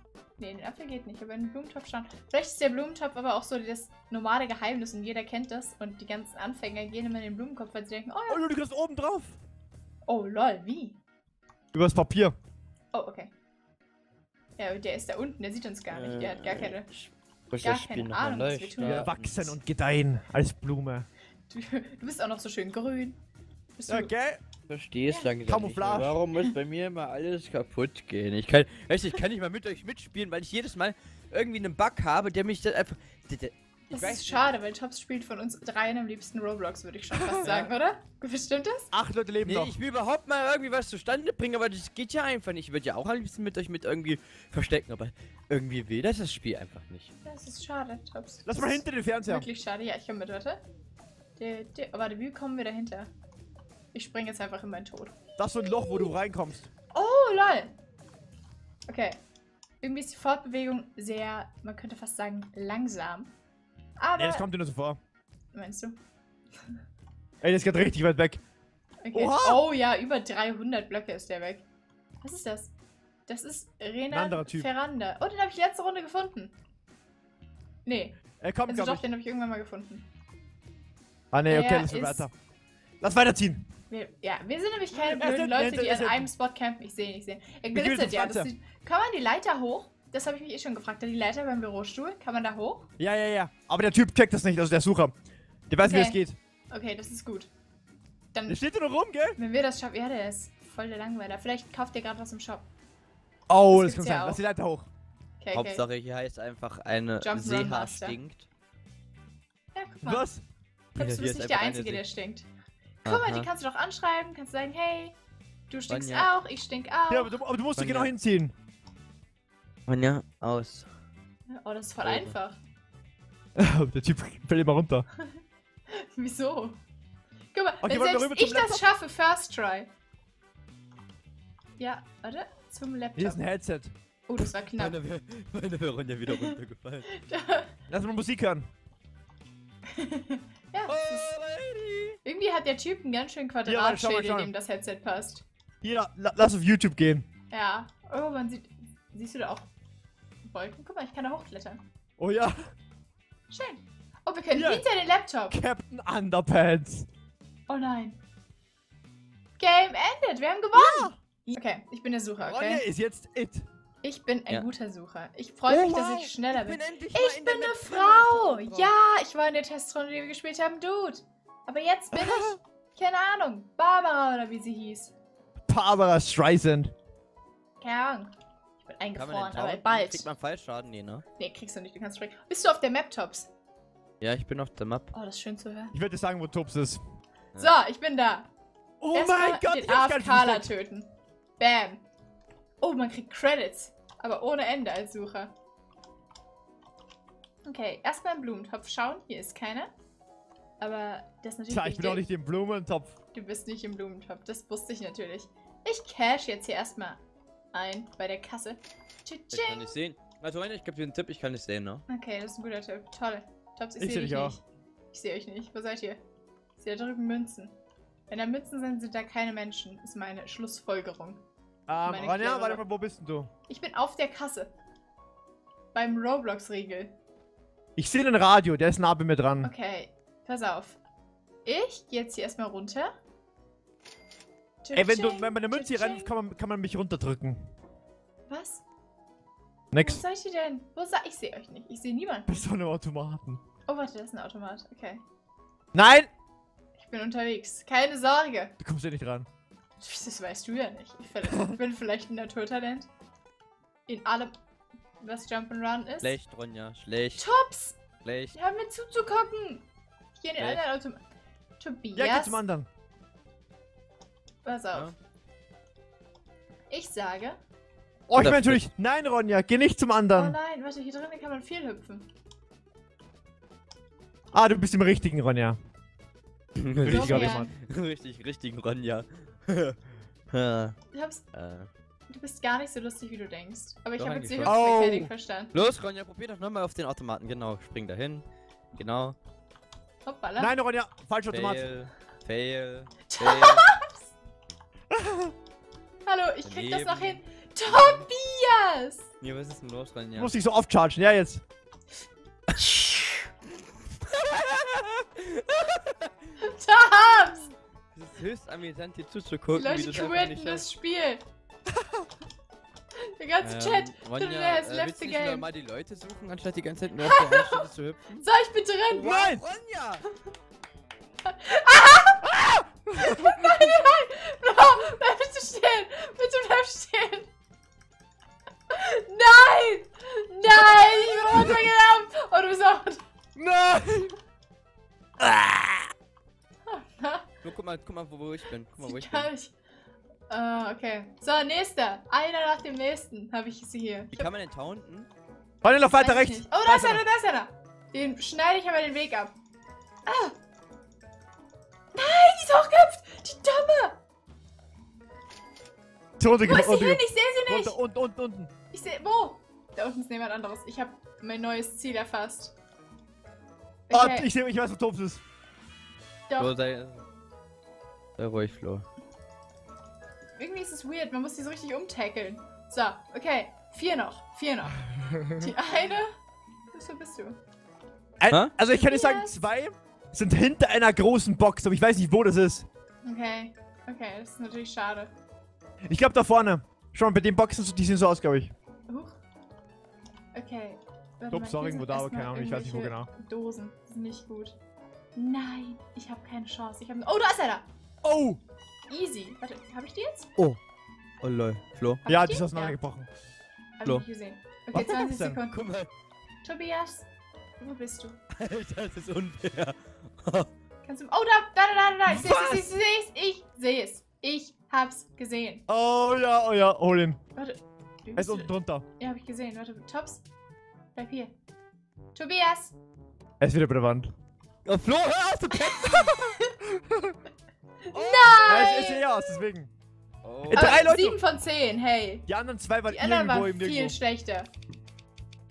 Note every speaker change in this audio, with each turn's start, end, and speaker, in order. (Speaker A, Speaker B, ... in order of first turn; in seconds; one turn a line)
Speaker A: 0.4-8.4
Speaker B: 8.3-9.4
Speaker A: 10.1-11.0
Speaker B: 11.7-12.4
Speaker A: 12.9-13.3
Speaker A: 14.6-16.9
Speaker C: 15.9-19.6
Speaker A: 17.6-19.1
Speaker B: 18.8-21.1
Speaker A: 21.5-23.2
Speaker A: 23.8-24.1
Speaker B: 23.9-24.4
Speaker C: 24.7-34.5
Speaker B: 25.5-26.2
Speaker A: 33.9-38.9
Speaker B: 37.2-37.5
Speaker C: 37.4-37.7
Speaker B: 38.9-39.8
Speaker C: 39.5-47.1
Speaker A: 47.2-50.6
Speaker B: 48.5-49.5
Speaker A: 51.4-53.1
Speaker A: 53.9-56.1
Speaker B: 55.4-56.7
Speaker A: 56.9-57.8
Speaker A: 58.9-59.2
Speaker A: 59.8-63.3
Speaker A: 64.0-64.5
Speaker B: 64.2-65.0
Speaker A: 65.5-66.0
Speaker B: 67.4-68.4
Speaker A: 69.0-71.6
Speaker B: 69.1-69.6
Speaker A: 72.2-72.7
Speaker A: 73.3-76.5
Speaker B: 74.1-74.7
Speaker A: 77.8-80.1
Speaker B: 78.4-79.0
Speaker B: 81.3-82.3
Speaker A: 81.5-82.3
Speaker B: 83.0-83.7
Speaker A: 83.9-92.9
Speaker B: 85.0-86.3
Speaker B: 87.7-88.5
Speaker B: 93.0-95.1
Speaker B: 95.7-96.4
Speaker A: 95.8-97.5
Speaker A: 98.3-98.6
Speaker B: 98.5-99.4
Speaker A: 99.4-102.7
Speaker B: 103.5-104.9
Speaker A: 103.7-104.4
Speaker A: 105.4-105.8
Speaker C: 105.5-108.5
Speaker A: 107.2-108.2
Speaker A: 109.8-110.3
Speaker B: 110.0-110.4
Speaker C: 111.0-112.0
Speaker A: 111.0-112.5
Speaker A: 113.0-115.2
Speaker C: 113.1-113.5
Speaker A: 115.7-117.4
Speaker C: 115.9-116.3
Speaker B: 117.1-118.5
Speaker C: 117.8-118.1
Speaker C: 119.9-120.9
Speaker A: 121.5-122.6
Speaker C: 122.0-122.3
Speaker B: 123.6-125.1
Speaker A: 125.2-126.8
Speaker A: 127.5-129.9
Speaker B: 127.8-128.9
Speaker A: 131.8-133.4
Speaker B: 133.2-133.9
Speaker A: 134.3-135.0
Speaker C: 134.8-137.1
Speaker A: 136.3-136.6
Speaker A: 137.1-137.7
Speaker B: 137.9-138.7
Speaker A: 139.9-141.3
Speaker C: 140.9-142.2
Speaker A: 142.2-145.4
Speaker B: 143.7-144.5
Speaker B: 145.8-147.3
Speaker A: 147.5-149.7
Speaker A: 150.4-151.8
Speaker B: 152.2-152.6
Speaker A: 153.5-155.6
Speaker B: 154.6-154.8
Speaker B: 155.5-157.1
Speaker A: 157.7-158.2
Speaker A: 159.6-162.8
Speaker B: 160.8-161.2
Speaker B: 162.4-163.7
Speaker A: 164.0-175.1
Speaker C: 165.7-168.9
Speaker B: 172.1-172.6
Speaker B: 175.7-176.9
Speaker A: 177.8-180.3
Speaker C: 179.2-181.2
Speaker A: 181.4-183.5
Speaker C: 184.2-185.1
Speaker A: 185.1-186.0
Speaker B: 185.9-187.0
Speaker A: 187.6-188.5
Speaker B: 189.0-190.7
Speaker A: 189.1-192.0
Speaker A: 192.8-195.5
Speaker A: 197.7-199.9
Speaker A: 200.8-202.2
Speaker B: 201.7-203.2
Speaker A: 203.3-207.2
Speaker A: 207.7-209.9
Speaker C: 209.5-212.0
Speaker A: 212.1-214.6
Speaker B: 214.0-214.6
Speaker A: 215.1-216.2
Speaker A: 216.8-217.8
Speaker A: 218.3-221.4
Speaker B: 221.9-223.5
Speaker A: 222.0-222.8
Speaker A: 223.7-224.7
Speaker A: 225.9-227.1
Speaker B: 228.0-229.7
Speaker A: 229.6-231.0
Speaker A: 231.7-233.1
Speaker A: 234.8-236.3
Speaker B: 234.9-237.7
Speaker A: 238.5-238.8
Speaker B: 239.9-240.2
Speaker A: 240.0-242.6
Speaker B: 242.5-243.6
Speaker A: 243.9-245.2
Speaker B: 245.9-246.3
Speaker A: 247.0-248.7
Speaker B: 248.8-249.5
Speaker A: 250.0-253.1
Speaker B: 251.5-251.8
Speaker A: 254.1-254.5
Speaker A: 255.2-256.4
Speaker C: 256.2-257.4
Speaker A: 257.4-258.0
Speaker C: 258.2-258.6
Speaker A: 258.5-259.9
Speaker A: 260.4-261.2
Speaker C: 260.6-260.8
Speaker A: 261.8-262.6
Speaker B: 262.2-262.9
Speaker A: 264.6-265.1
Speaker A: 266.9-267.6
Speaker B: 268.3-270.6
Speaker C: 268.3-268.8
Speaker A: 270.3-272.3
Speaker B: 274.5-275.8
Speaker C: 276.8-280.0
Speaker B: 277.0-277.7
Speaker A: 277.1-277.7
Speaker C: 280.5-280.9
Speaker A: 281.1-281.4
Speaker C: 281.5-281.9
Speaker A: 282.3-285.8
Speaker C: 284.2-284.8
Speaker B: 284.6-285.3
Speaker C: 285.7-289.4
Speaker A: 290.2-290.7
Speaker B: 290.6-291.9
Speaker C: 291.5-293.9
Speaker A: 293.3-294.3
Speaker B: 295.1-295.5
Speaker A: 296.3-299.3
Speaker C: 296.6-298.2
Speaker C: 299.4-300.6
Speaker B: 300.4-301.6
Speaker C: 302.8-303.1
Speaker C: 304.2-306.3
Speaker A: 306.6-307.7
Speaker C: 308.1-310.9
Speaker A: 309.7-311.4
Speaker B: 312.0-312.3
Speaker A: 313.4-315.7
Speaker C: 313.6-318.5
Speaker A: 317.2-317.9
Speaker A: 318.4-319.4
Speaker C: 319.1-320.2
Speaker B: 319.2-319.6
Speaker A: 321.4-322.6
Speaker B: 322.5-323.8
Speaker A: 323.1-327.5
Speaker A: 328.9-333.2
Speaker B: 330.8-331.8
Speaker B: 333.6-334.4
Speaker B: 335.4-336.1
Speaker A: 336.9-337.5
Speaker C: 337.6-339.5
Speaker A: 339.0-339.7
Speaker A: 340.5-344.5
Speaker C: 344.3-345.3
Speaker B: 345.8-347.2
Speaker A: 346.1-349.5
Speaker A: 350.3-350.6
Speaker A: 352.1-354.2
Speaker B: 356.4-358.7
Speaker A: 356.6-358.0
Speaker A: 358.9-362.7
Speaker A: 364.1-364.5
Speaker B: 364.1-365.4
Speaker A: 366.5-366.7
Speaker C: 366.6-367.2
Speaker C: 368.4-369.1
Speaker A: 370.6-376.3
Speaker A: 376.9-377.6
Speaker B: 378.4-382.9
Speaker A: 378.9-379.7
Speaker A: 383.2-385.3
Speaker B: 386.1-388.7
Speaker A: 389.1-389.4
Speaker A: 390.5-394.8
Speaker B: 391.5-393.3
Speaker A: 395.4-397.9
Speaker B: 398.2-398.6
Speaker A: 399.1-400.5
Speaker C: 401.4-402.2
Speaker A: 402.2-403.0
Speaker B: 402.3-403.3
Speaker A: 404.0-405.9
Speaker B: 404.9-405.6
Speaker C: 405.7-406.1
Speaker A: 406.6-407.3
Speaker A: 407.8-408.4
Speaker C: 408.6-410.7
Speaker A: 411.0-415.8
Speaker B: 412.3-412.9
Speaker B: 415.9-417.4
Speaker A: 417.6-420.4
Speaker B: 418.4-419.1
Speaker A: 421.1-421.5
Speaker A: 422.3-423.0
Speaker B: 423.6-424.3
Speaker C: 424.9-426.5
Speaker A: 425.7-426.7
Speaker B: 426.9-427.4
Speaker A: 428.1-429.3
Speaker C: 428.1-428.8
Speaker B: 428.6-429.9
Speaker C: 430.4-431.0
Speaker B: 430.7-431.4
Speaker A: 430.8-432.5
Speaker B: 432.5-434.2
Speaker A: 433.1-434.7